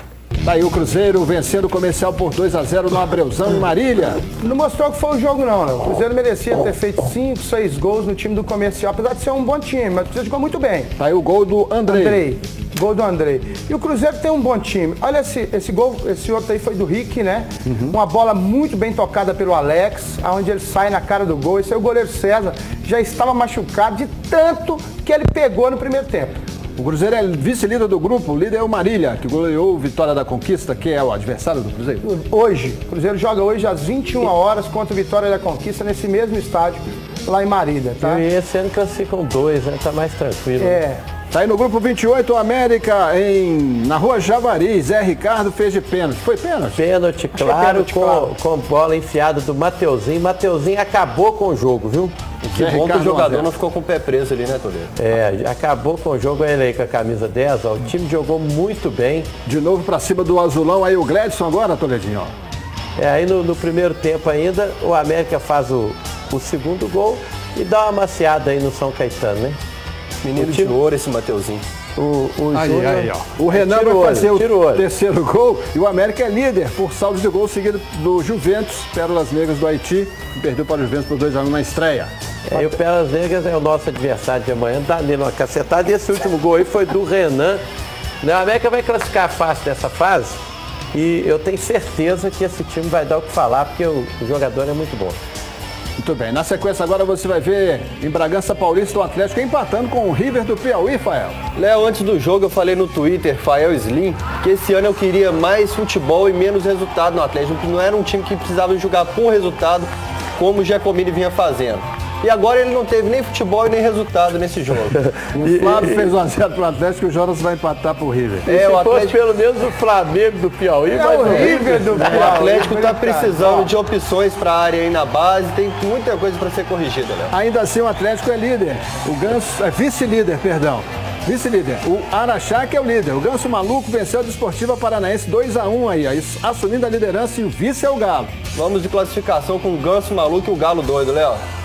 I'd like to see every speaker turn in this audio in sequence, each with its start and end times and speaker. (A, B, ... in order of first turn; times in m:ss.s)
0:00.4-0:04.2 A
0:04.4-0:10.9 B
0:11.0-0:12.2 A
0:11.9-0:26.4 B
0:26.8-0:32.0 A
0:32.0-0:38.2 B
0:38.0-0:40.8 C
0:40.6-0:41.0 B
0:41.3-0:46.8 A
0:46.7-0:52.2 C
0:47.3-0:48.3 B
0:52.4-0:54.9 D
0:52.5-0:53.5 A
0:55.0-0:59.3 C
0:59.5-1:02.3 A
1:03.0-1:09.6 C
1:10.2-1:11.6 D
1:10.4-1:10.7 C
1:12.0-1:14.8 C
1:12.5-1:22.1 A
1:22.5-1:27.6 C
1:28.2-1:30.4 C
1:30.9-1:35.2 C
1:36.0-1:41.4 A
1:41.6-1:55.0 D
1:55.1-1:56.1 C
1:55.3-1:58.5 A
1:58.5-1:59.2 D
1:58.5-2:02.4 C
2:00.9-2:03.7 B
2:01.9-2:07.3 D
2:07.3-2:18.3 A
2:18.5-2:21.4 D